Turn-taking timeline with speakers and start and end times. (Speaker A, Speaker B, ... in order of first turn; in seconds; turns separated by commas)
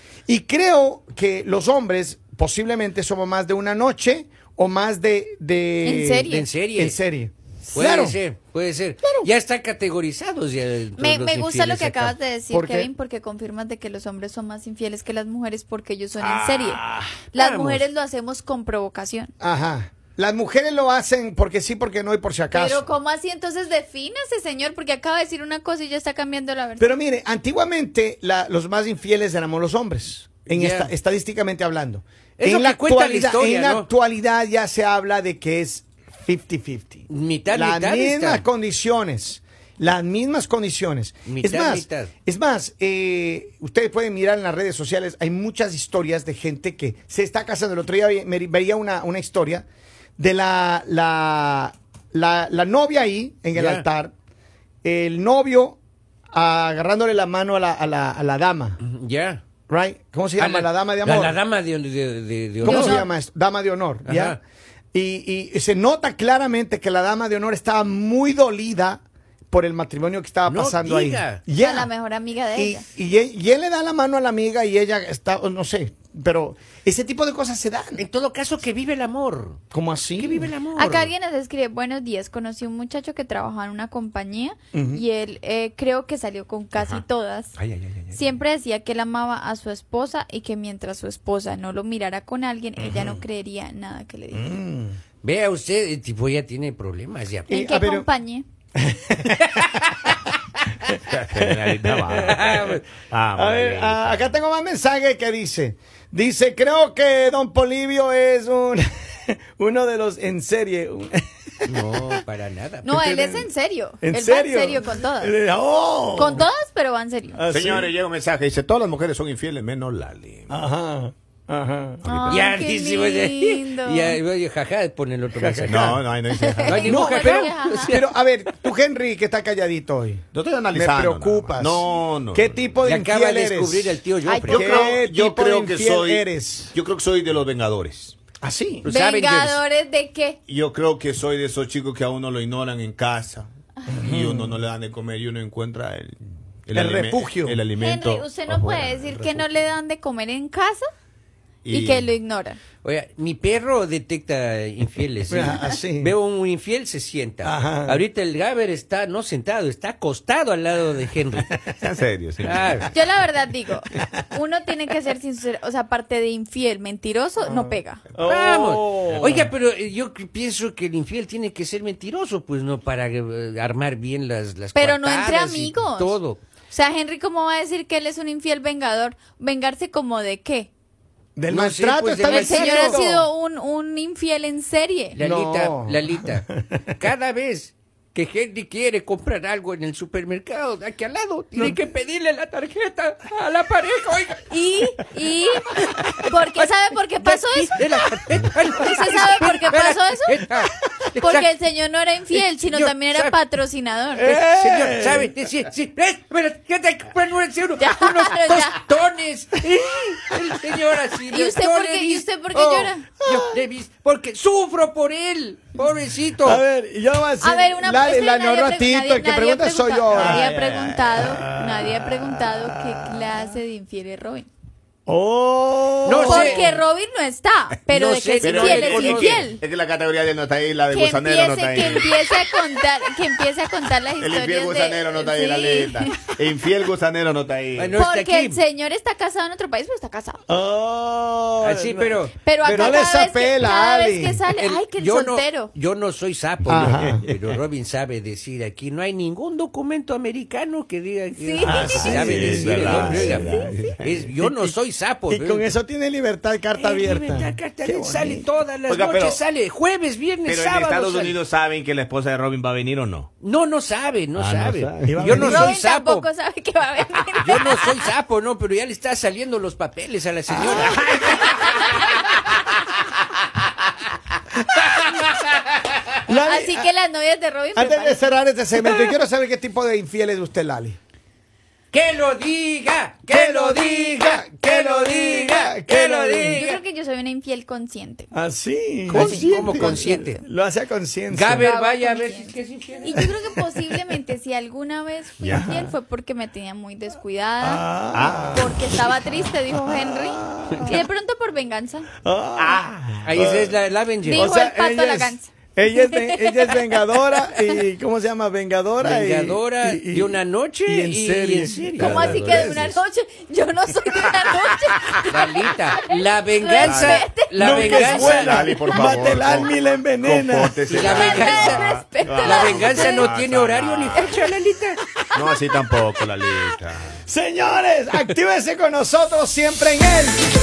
Speaker A: 0.3-8.2, Speaker B: 5.8-6.5, Speaker C: 6.3-7.0, Speaker C: 7.7-12.2, Speaker A: 9.0-9.3, Speaker B: 11.0-19.3, Speaker A: 12.5-12.9, Speaker A: 16.2-17.1, Speaker C: 17.4-17.9, Speaker A: 19.4-22.9, Speaker B: 22.5-26.9, Speaker A: 26.8-49.6, Speaker C: 30.5-30.9, Speaker C: 32.4-33.9, Speaker C: 37.1-38.5, Speaker C: 41.3-42.1, Speaker A: 50.2-54.1, Speaker C: 53.5-53.9, Speaker A: 54.8-55.8, Speaker A: 56.3-58.8, Speaker C: 58.8-59.4, Speaker A: 59.7-61.4, Speaker C: 60.4-63.0, Speaker B: 62.6-63.1, Speaker A: 62.6-64.4, Speaker C: 64.0-64.4, Speaker A: 64.9-71.9, Speaker C: 70.5-71.4, Speaker B: 71.5-72.8, Speaker A: 72.6-78.0, Speaker C: 78.0-79.6, Speaker A: 79.7-80.5, Speaker C: 80.2-81.1, Speaker B: 80.8-87.5, Speaker A: 84.7-85.0, Speaker D: 86.8-87.0, Speaker C: 87.6-88.1, Speaker B: 88.1-94.5, Speaker A: 92.8-93.1, Speaker A: 94.3-95.0, Speaker C: 95.2-97.5, Speaker A: 97.5-98.1, Speaker B: 97.5-98.5, Speaker A: 98.8-99.7, Speaker C: 99.5-100.2, Speaker D: 101.0-104.3, Speaker A: 101.3-102.6, Speaker C: 102.1-102.8, Speaker A: 103.3-112.2, Speaker C: 111.7-113.0, Speaker B: 112.8-115.4, Speaker A: 112.9-113.5, Speaker A: 114.0-116.5, Speaker B: 116.1-117.4, Speaker A: 117.3-117.9, Speaker D: 117.5-120.6, Speaker A: 120.5-122.3, Speaker D: 122.0-122.5, Speaker B: 122.0-124.2, Speaker C: 122.3-126.0, Speaker A: 125.3-126.0, Speaker D: 125.7-126.9, Speaker B: 126.4-128.0, Speaker C: 126.6-128.5, Speaker A: 126.8-136.7, Speaker D: 130.3-132.9, Speaker C: 132.8-134.8, Speaker B: 134.3-135.0, Speaker D: 134.4-138.2, Speaker A: 138.4-138.9, Speaker C: 138.8-139.6, Speaker B: 138.9-140.4, Speaker D: 140.5-143.5, Speaker A: 143.9-144.6, Speaker D: 144.0-149.4, Speaker A: 146.7-147.6, Speaker B: 147.8-150.9, Speaker D: 151.7-152.1, Speaker B: 151.7-152.6, Speaker C: 152.8-161.6, Speaker A: 155.3-156.2, Speaker A: 157.4-158.0, Speaker D: 161.7-162.9, Speaker C: 162.4-162.9, Speaker B: 162.9-168.0, Speaker A: 167.4-169.5, Speaker C: 168.2-176.4, Speaker D: 169.2-169.4, Speaker B: 174.8-176.2, Speaker B: 176.7-180.7, Speaker A: 181.4-183.2, Speaker C: 181.5-183.2, Speaker B: 182.2-185.2, Speaker C: 185.1-194.4, Speaker A: 185.2-186.8, Speaker A: 191.6-191.8, Speaker B: 194.5-197.8, Speaker C: 196.0-201.5, Speaker B: 198.7-200.4, Speaker B: 201.2-204.3, Speaker C: 202.3-203.4, Speaker A: 204.2-205.3, Speaker C: 204.2-216.6, Speaker B: 207.8-208.8, Speaker B: 211.3-213.1, Speaker A: 213.3-213.6, Speaker A: 216.4-223.4, Speaker B: 217.4-224.5, Speaker D: 220.1-221.1, Speaker A: 225.1-226.8, Speaker C: 226.0-226.8, Speaker B: 226.2-229.6, Speaker C: 227.9-229.4, Speaker D: 228.4-232.1, Speaker B: 230.9-236.2, Speaker D: 234.2-238.0, Speaker C: 237.8-238.6, Speaker B: 238.0-240.4, Speaker A: 240.5-244.4, Speaker C: 241.6-242.3, Speaker B: 242.4-245.7, Speaker C: 244.6-255.7, Speaker D: 246.7-247.2, Speaker A: 246.7-247.3, Speaker B: 251.4-253.8, Speaker A: 251.6-253.7, Speaker D: 252.0-254.3, Speaker A: 254.4-254.7, Speaker A: 255.3-258.5, Speaker C: 256.8-261.4, Speaker D: 258.9-259.4, Speaker D: 260.4-263.3, Speaker C: 263.4-266.3, Speaker D: 264.4-265.6, Speaker A: 265.0-265.8, Speaker B: 265.4-267.9, Speaker C: 267.4-272.3, Speaker A: 270.5-271.5, Speaker B: 271.5-272.2, Speaker C: 274.8-276.1, Speaker A: 276.3-276.9, Speaker B: 276.3-278.2, Speaker A: 277.8-281.0, Speaker C: 278.8-279.1, Speaker C: 281.9-286.8, Speaker A: 283.3-286.6, Speaker B: 286.4-288.3, Speaker A: 288.3-291.7, Speaker C: 289.1-290.4, Speaker B: 289.1-290.4, Speaker C: 291.3-293.3, Speaker B: 291.5-297.9, Speaker D: 295.4-295.7, Speaker A: 295.5-295.9, Speaker A: 297.6-299.0, Speaker D: 298.1-298.8, Speaker B: 298.5-302.1, Speaker A: 299.7-301.1, Speaker A: 302.2-313.0, Speaker D: 302.6-303.5, Speaker C: 303.2-304.5, Speaker B: 304.3-307.8, Speaker C: 309.0-312.8, Speaker B: 312.0-319.2, Speaker C: 315.3-318.6, Speaker D: 316.8-317.3, Speaker A: 317.6-320.8, Speaker D: 318.0-324.5, Speaker C: 320.9-321.9, Speaker B: 321.0-323.3, Speaker C: 322.4-325.0, Speaker B: 324.1-324.4, Speaker B: 325.2-326.0, Speaker D: 325.4-327.2, Speaker A: 327.2-330.4